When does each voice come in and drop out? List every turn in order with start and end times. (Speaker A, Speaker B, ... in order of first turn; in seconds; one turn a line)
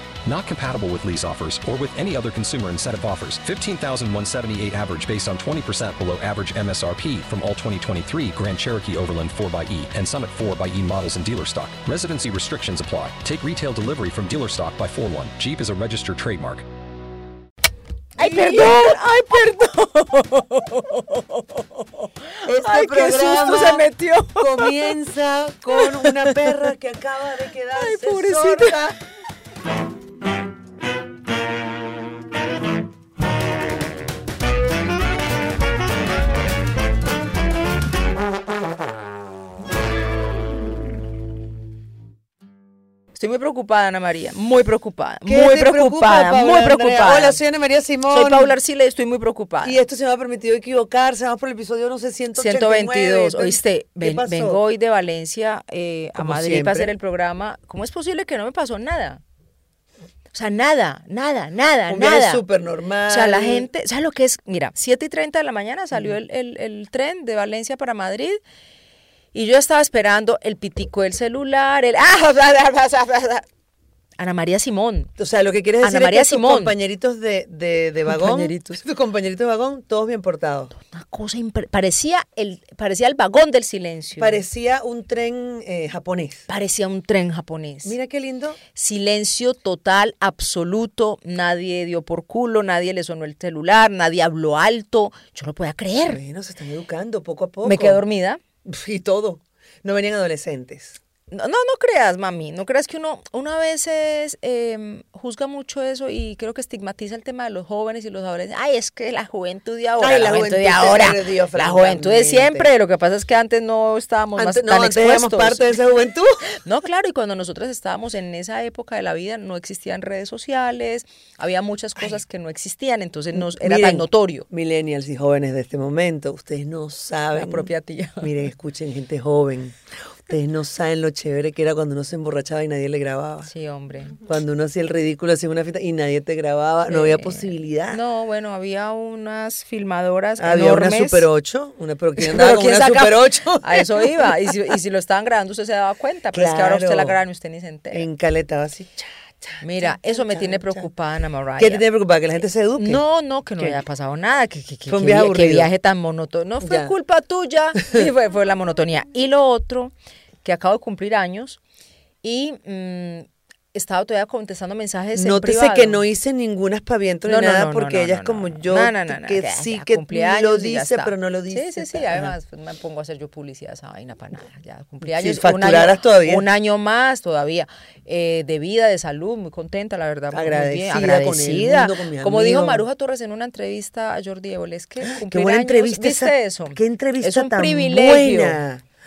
Speaker A: 0.2-16.6
Speaker B: 18.2-24.9
Speaker C: 18.2-19.0
Speaker C: 22.4-28.9
Speaker B: 25.7-26.7
Speaker B: 27.8-28.8
Speaker B: 43.1-47.4
Speaker C: 45.2-48.5
Speaker B: 48.1-49.8
Speaker C: 49.6-54.6
Speaker B: 52.4-59.2
Speaker C: 56.2-56.9
Speaker B: 60.3-62.4
Speaker C: 61.9-63.7
Speaker B: 63.1-68.4
Speaker B: 69.3-73.5
Speaker B: 74.2-75.1
Speaker C: 75.2-80.7
Speaker B: 75.8-76.8
Speaker B: 78.1-78.7
Speaker B: 80.7-84.4
Speaker C: 84.2-86.5
Speaker B: 86.5-88.0
Speaker C: 87.8-88.6
Speaker B: 88.7-96.2
Speaker C: 96.1-98.0
Speaker B: 97.6-98.4
Speaker C: 98.7-101.0
Speaker B: 101.3-115.8
Speaker C: 110.0-112.7
Speaker C: 114.4-116.5
Speaker B: 116.5-124.5
Speaker C: 123.3-133.5
Speaker B: 127.3-128.3
Speaker B: 133.4-134.2
Speaker C: 134.2-138.0
Speaker B: 136.9-141.3
Speaker C: 140.4-144.6
Speaker B: 142.2-148.1
Speaker C: 146.3-147.2
Speaker C: 147.9-150.9
Speaker B: 149.6-151.8
Speaker C: 151.6-153.0
Speaker B: 152.8-159.9
Speaker C: 154.9-155.7
Speaker C: 156.6-156.9
Speaker C: 157.8-158.1
Speaker B: 160.4-161.6
Speaker B: 162.2-166.0
Speaker C: 165.2-172.3
Speaker B: 167.3-188.6
Speaker C: 175.0-176.5
Speaker C: 180.3-182.9
Speaker C: 185.0-188.8